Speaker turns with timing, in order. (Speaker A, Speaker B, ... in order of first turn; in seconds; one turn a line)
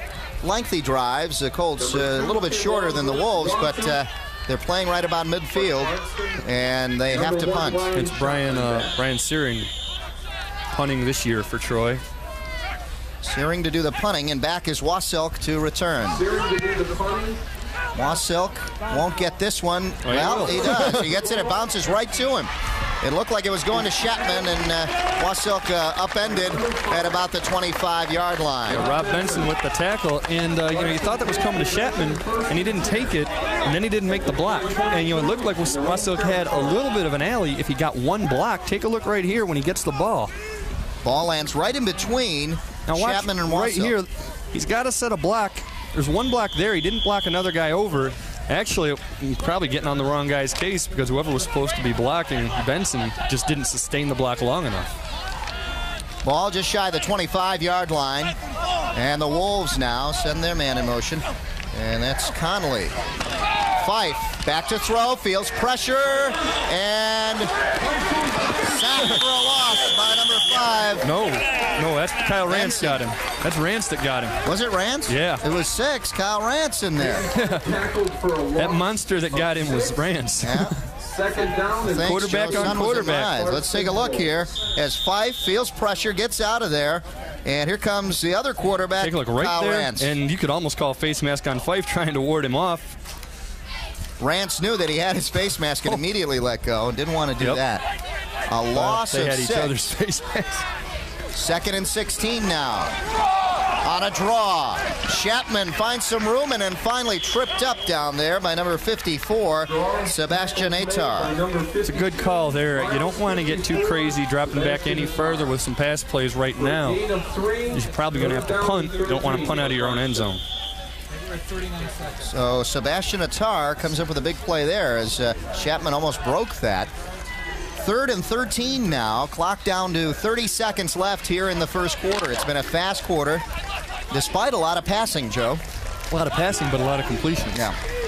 Speaker A: 0.4-7.8
Speaker B: 1.8-4.0
Speaker B: 5.5-6.5
Speaker B: 7.1-8.9
Speaker C: 7.9-9.7
Speaker C: 10.7-12.0
Speaker A: 13.2-16.2
Speaker B: 16.1-17.4
Speaker A: 17.9-22.5
Speaker C: 20.0-21.1
Speaker A: 23.0-28.9
Speaker B: 26.4-27.0
Speaker C: 28.7-40.3
Speaker B: 28.7-29.5
Speaker B: 30.6-33.2
Speaker B: 34.1-36.8
Speaker A: 41.0-44.0
Speaker C: 42.9-54.9
Speaker A: 56.2-58.3
Speaker A: 58.9-62.9
Speaker A: 63.8-67.5
Speaker A: 68.6-71.1
Speaker C: 71.0-74.4
Speaker A: 72.4-73.0
Speaker A: 74.4-77.3
Speaker C: 75.1-75.4
Speaker B: 77.0-79.9
Speaker C: 77.3-77.7
Speaker C: 78.5-80.8
Speaker A: 80.4-80.7
Speaker B: 81.0-84.3
Speaker A: 81.8-90.1
Speaker C: 82.0-83.3
Speaker C: 89.0-92.9
Speaker A: 94.2-97.8
Speaker A: 98.5-99.7
Speaker C: 98.7-100.6
Speaker A: 101.3-102.9
Speaker A: 103.8-111.3
Speaker B: 109.7-115.5
Speaker C: 111.8-117.0
Speaker B: 116.6-120.3
Speaker C: 117.7-120.4
Speaker A: 122.2-126.9
Speaker A: 127.8-133.4
Speaker A: 134.1-135.6
Speaker C: 136.1-137.6